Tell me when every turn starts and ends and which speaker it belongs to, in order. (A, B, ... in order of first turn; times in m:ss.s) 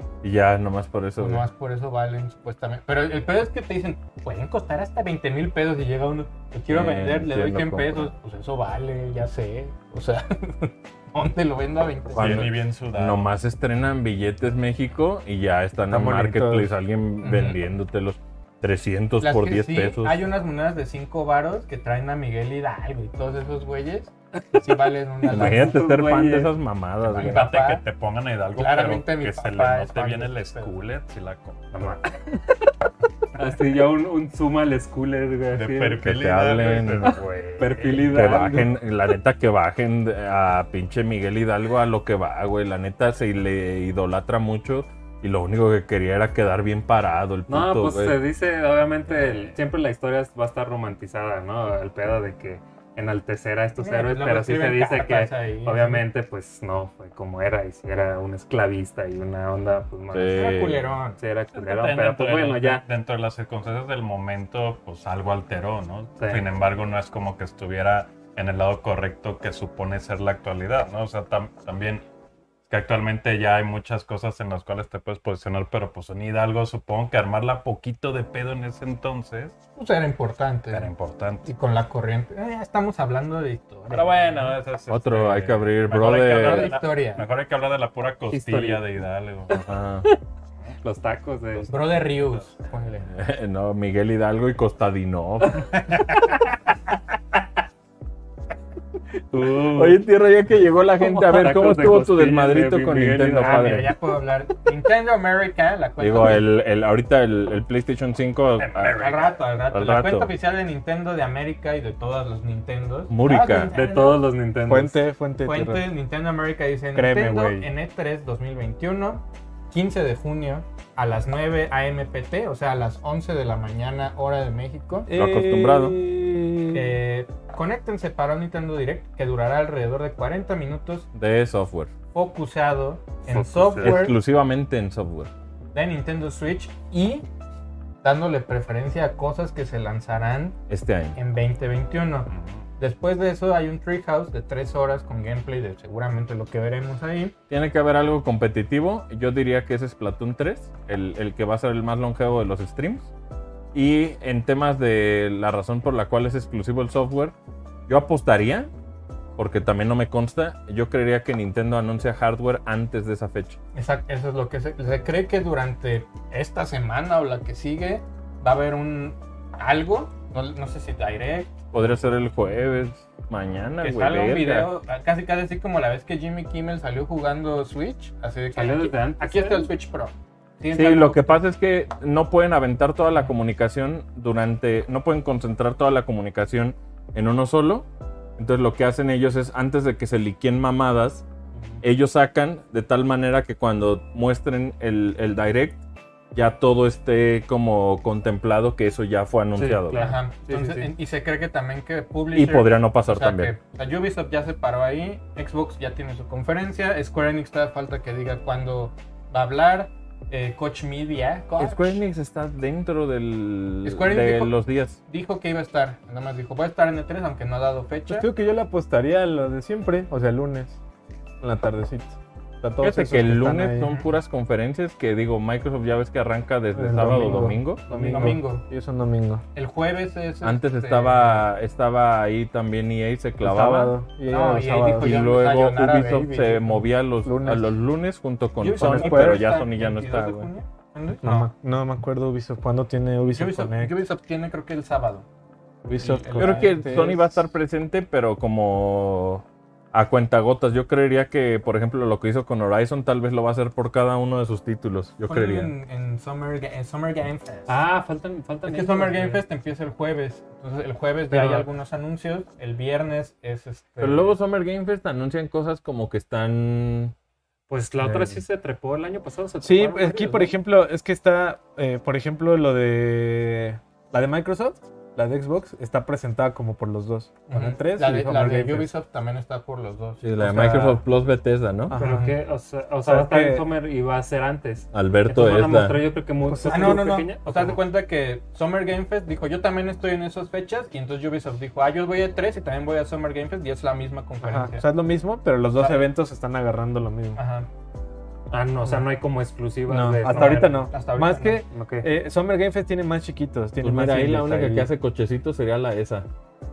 0:00.2-0:01.4 A
0:01.2-0:12.5 B
0:06.7-0:08.1 A
0:12.1-0:20.2 A
0:12.2-0:13.3 C
0:15.9-0:16.7 D
0:17.2-0:17.6 B
0:19.2-0:25.8 B
0:25.2-0:26.5 E
0:25.3-0:27.5 A
0:27.1-0:32.0 C
0:27.1-0:27.8 B
0:28.6-0:30.7 B
0:31.7-0:32.7 E
0:33.4-0:36.0 E
0:35.5-0:38.7 C
0:36.0-0:37.2 A
0:37.0-0:38.6 E
0:37.8-0:48.2 A
0:47.5-1:00.5 E
0:49.1-0:49.6 C
0:53.8-0:56.0 B
1:00.1-1:00.9 A
1:00.3-1:01.2 B
1:01.2-1:02.8 E
1:01.5-1:12.0 C
1:06.2-1:06.5 E
1:12.7-1:19.6 C
1:19.8-1:20.9 B
1:20.7-1:21.5 C
1:21.4-1:24.6 B
1:23.9-1:29.7 C
1:24.9-1:26.8 A
1:25.9-1:27.2 B
1:28.3-1:28.9 E
1:29.5-1:30.1 A
1:30.8-1:31.7 E
1:31.5-1:32.4 C
1:31.7-1:33.1 B
1:33.1-1:35.8 A
1:39.4-1:43.9 A
1:39.6-1:39.9 E
1:41.0-1:43.9 E
1:43.4-1:46.4 B
1:46.0-1:49.0 A
1:48.8-1:49.1 C
1:49.0-1:54.2 B
1:49.7-1:50.3 A
1:53.1-1:53.7 A
1:53.7-1:55.0 E
1:54.6-1:55.8 D
1:55.4-2:05.1 B
1:56.9-1:57.7 D
2:05.1-2:07.0 D
2:05.1-2:06.0 A
2:06.7-2:11.1 B
2:11.1-2:11.9 A
2:12.1-2:14.2 B
2:13.3-2:14.0 E
2:13.8-2:15.3 A
2:15.7-2:17.2 B
2:18.0-2:20.6 B
2:20.7-2:21.2 A
2:21.1-2:27.3 B
2:22.3-2:22.7 C
2:27.5-2:33.1 A
2:33.7-2:37.3 A
2:37.9-2:38.7 A
2:39.4-2:43.6 A
2:43.7-2:51.6 B
2:51.7-2:54.7 A
2:53.8-3:01.4 B
2:58.5-2:59.7 E
3:00.7-3:11.2 A
3:11.8-3:15.8 A
3:16.3-3:20.0 A
3:19.6-3:20.9 E
3:19.9-3:32.0 B
3:22.3-3:23.5 A
3:31.6-3:35.0 A
3:33.8-3:38.3 B
3:38.1-3:40.8 D
3:41.4-3:43.9 D
3:42.8-3:48.3 A
3:43.8-3:44.1 B
3:46.7-3:49.4 D
3:47.9-3:48.6 B
3:49.5-3:51.5 B
3:50.4-3:54.0 A
3:53.4-3:55.4 D
3:54.3-3:56.8 B
3:55.0-4:00.5 A
3:57.2-3:57.7 D
3:58.6-4:01.5 B
3:58.7-3:59.6 D
4:01.2-4:04.0 D
4:03.3-4:05.2 B
4:05.8-4:07.4 D
4:06.0-4:07.1 B
4:06.3-4:15.7 A
4:15.2-4:17.8 B
4:17.7-4:19.4 E
4:18.6-4:24.4 B
4:21.3-4:21.6 E
4:24.0-4:27.1 A
4:27.7-4:30.5 E
4:28.0-4:28.3 D
4:29.6-4:38.9 D
4:37.5-4:40.9 B
4:40.2-4:41.9 A
4:40.4-4:41.0 D
4:41.9-4:42.3 D
4:42.0-4:42.3 B
4:42.0-4:47.8 E
4:43.0-4:43.6 D
4:44.9-4:46.0 A
4:46.4-4:47.1 D
4:46.6-4:54.8 B
4:54.4-4:57.4 D
4:55.8-4:56.1 B
4:57.3-4:57.7 B
4:58.5-5:00.9 E
4:59.9-5:04.9 D
5:00.2-5:01.6 B
5:01.7-5:02.1 E
5:03.8-5:06.3 A